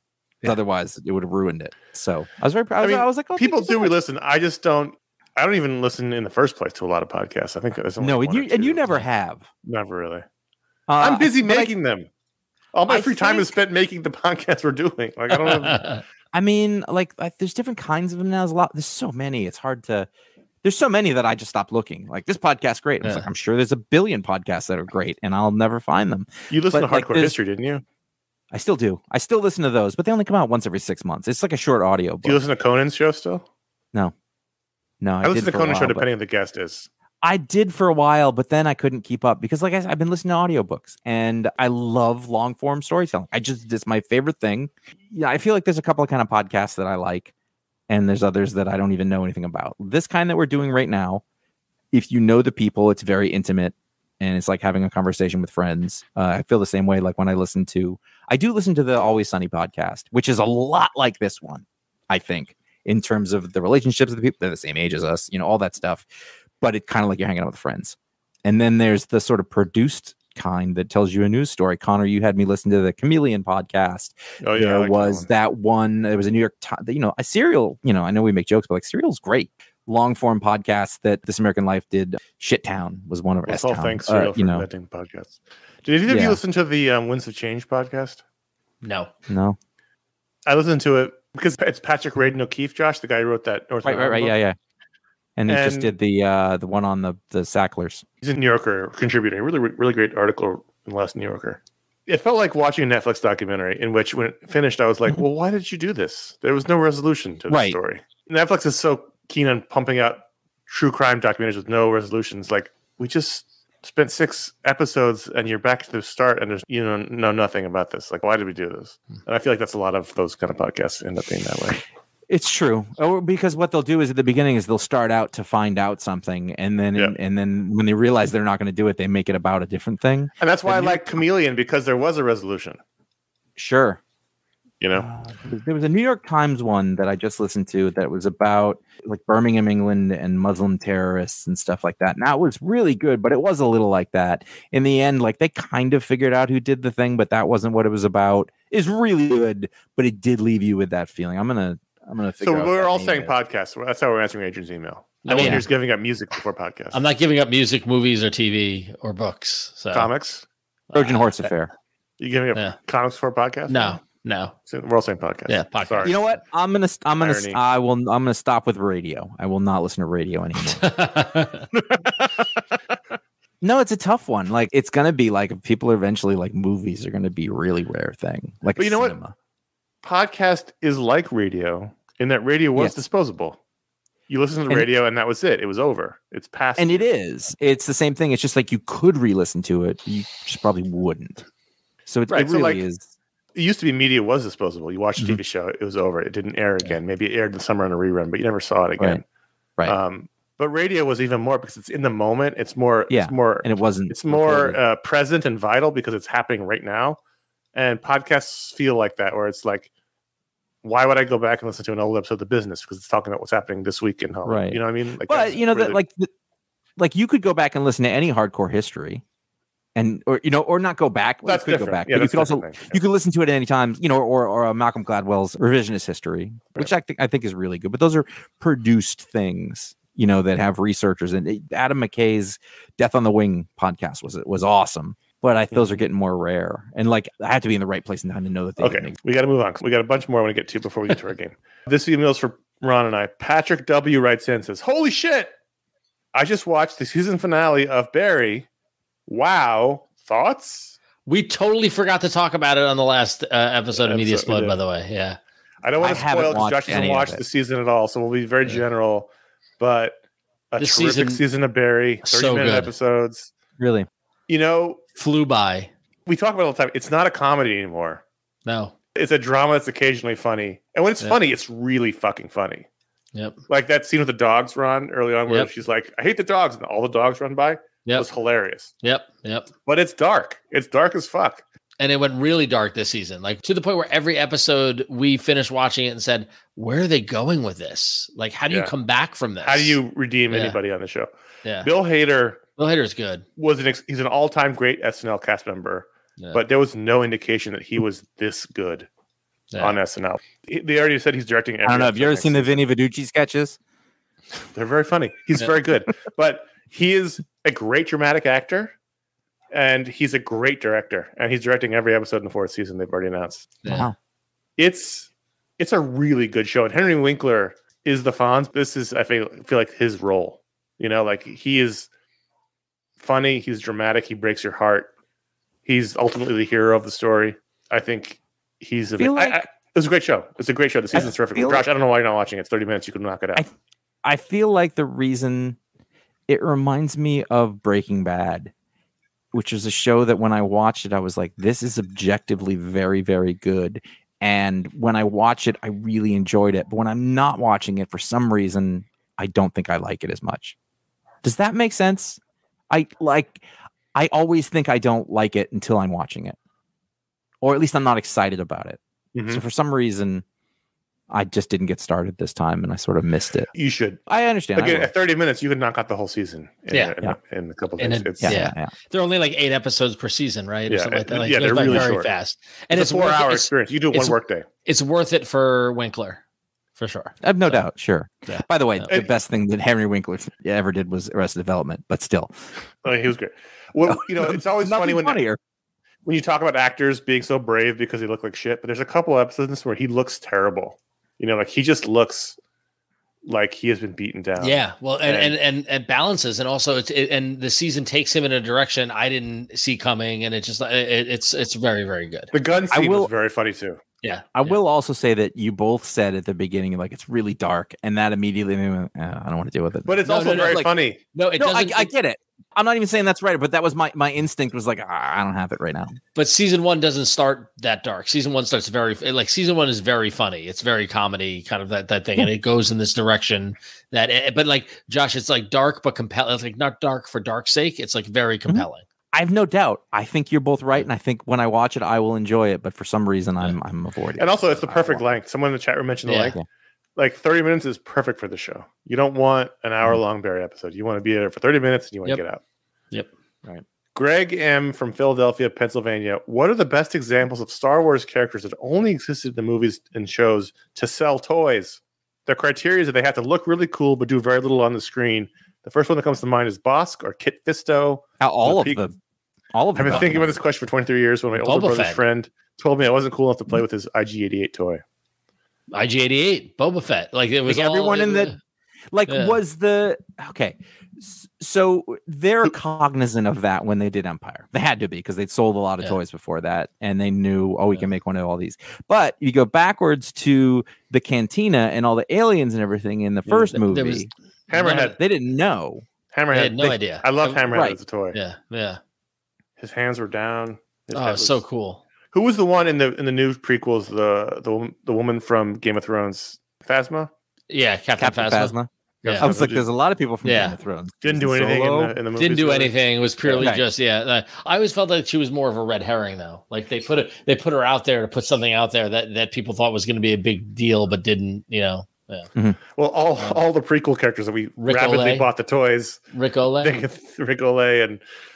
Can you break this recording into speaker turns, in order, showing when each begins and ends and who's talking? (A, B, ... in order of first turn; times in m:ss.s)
0:00.4-0:03.9 A
0:02.8-0:08.9 B
0:08.0-0:09.4 A
0:09.6-0:10.2 B
0:10.9-0:11.7 A
0:11.0-0:12.1 B
0:12.7-0:15.9 B
0:12.9-0:13.5 A
0:15.5-0:16.0 C
0:16.3-0:20.1 A
0:20.6-0:27.4 A
0:26.5-0:27.8 B
0:28.5-0:32.4 A
0:32.2-0:33.4 B
0:35.0-0:36.0 A
0:35.2-0:36.9 B
0:37.2-0:47.3 A
0:47.9-0:51.2 A
0:51.9-1:06.0 A
1:06.6-1:24.6 A
1:14.4-1:15.3 B
1:23.4-1:28.2 B
1:26.1-1:26.4 A
1:28.8-1:29.1 C
1:29.3-1:29.6 A
1:30.4-1:34.4 B
1:33.8-1:34.6 A
1:35.4-1:38.0 A
1:35.5-1:35.9 B
1:38.2-2:01.8 B
1:47.5-1:47.8 A
2:02.3-2:11.2 A
2:10.4-2:12.8 B
2:13.6-2:14.0 A
2:14.8-2:15.1 B
2:14.9-2:33.3 A
2:32.4-2:37.0 B
2:35.2-2:35.7 C
2:35.4-2:35.6 A
2:36.9-2:40.1 C
2:39.9-2:40.4 B
2:40.9-2:41.4 C
2:40.9-2:41.7 A
2:42.2-2:44.0 B
2:43.7-2:44.5 C
2:44.6-2:46.2 B
2:45.5-2:46.2 C
2:46.0-2:50.9 A
2:47.2-2:47.6 B
2:50.7-2:51.7 C
2:51.7-2:52.6 A
2:53.6-2:59.3 A
2:58.8-2:59.2 B
3:00.0-3:03.6 B
3:04.3-3:07.1 B
3:06.8-3:11.4 A
3:12.1-3:13.1 A
3:12.3-3:12.8 B
3:13.5-3:19.2 B
3:19.8-3:27.2 B
3:23.1-3:24.8 A
3:27.7-3:29.9 B
3:30.8-3:36.0 B
3:34.4-3:36.3 A
3:37.0-3:39.2 A
3:39.9-3:59.2 A
3:41.4-3:43.0 B
3:58.8-4:05.5 B
4:06.3-4:08.7 B
4:09.3-4:11.0 B
4:11.2-4:15.4 C
4:13.9-4:14.8 B
4:15.8-4:20.2 B
4:16.0-4:17.4 A
4:20.7-4:23.5 B
4:20.8-4:21.4 C
4:22.2-4:22.9 C
4:23.8-4:24.1 A
4:24.5-4:25.0 B
4:25.2-4:25.9 C
4:26.3-4:28.2 B
4:28.6-4:28.9 C
4:29.1-4:32.8 B
4:33.7-4:38.9 B
4:39.0-4:39.7 C
4:39.8-4:41.6 B
4:42.0-4:50.0 C
4:49.6-4:51.3 B
4:50.5-4:50.8 C
4:51.8-4:52.6 B
4:52.8-4:53.4 C
4:53.6-4:59.1 B
4:59.8-5:02.8 B
5:01.8-5:03.8 A
5:04.7-5:08.9 B
5:09.7-5:13.7 B
5:13.8-5:14.1 A
5:14.8-5:22.1 B
5:23.2-5:25.1 B
5:25.8-5:33.6 B
5:29.2-5:29.6 A
5:31.1-5:31.9 A
5:34.2-5:35.8 A
5:36.5-5:38.7 A
5:39.5-5:50.7 A
5:51.4-5:56.6 A
5:57.6-6:00.4 A
5:59.3-5:59.6 B
6:01.3-6:03.7 A
6:03.7-6:04.2 B
6:04.3-6:05.1 A
6:04.7-6:08.6 B
6:08.0-6:16.4 C
6:08.4-6:08.9 A
6:10.9-6:12.3 B
6:12.9-6:14.6 B
6:17.0-6:17.8 C
6:17.4-6:22.5 A
6:18.5-6:19.1 C
6:23.0-6:25.4 B
6:24.0-6:25.6 A
6:26.2-6:32.6 B
6:33.4-6:35.6 B
6:34.6-6:42.5 C
6:42.5-6:44.0 B
6:42.9-6:43.3 A
6:44.2-6:44.8 C
6:44.6-6:50.9 A
6:50.0-6:51.2 B
6:50.2-6:52.1 C
6:51.6-6:56.2 A
6:56.3-7:09.0 C
7:08.7-7:15.2 A
7:14.4-7:16.6 B
7:16.2-7:16.6 C
7:17.2-7:22.6 B
7:24.1-7:39.0 B
7:38.4-7:39.1 A
7:39.7-7:40.6 A
7:40.0-7:45.0 B
7:41.6-7:42.2 C
7:45.9-7:48.6 C
7:47.7-7:48.5 A
7:49.1-8:04.3 A
7:49.3-7:49.6 C
8:03.5-8:05.2 C
8:04.7-8:05.2 B
8:05.2-8:06.0 A
8:06.3-8:08.4 B
8:06.5-8:07.7 C
8:07.7-8:08.0 A
8:08.3-8:09.0 C
8:09.8-8:11.6 B
8:11.1-8:12.0 C
8:12.3-8:17.3 B
8:17.7-8:19.5 C
8:18.2-8:22.2 A
8:19.2-8:19.8 B
8:20.4-8:20.8 C
8:21.2-8:22.9 B
8:22.4-8:32.5 C
8:23.6-8:23.8 A
8:33.0-8:36.2 B
8:34.8-8:35.5 C
8:36.3-8:37.0 C
8:36.8-8:38.2 B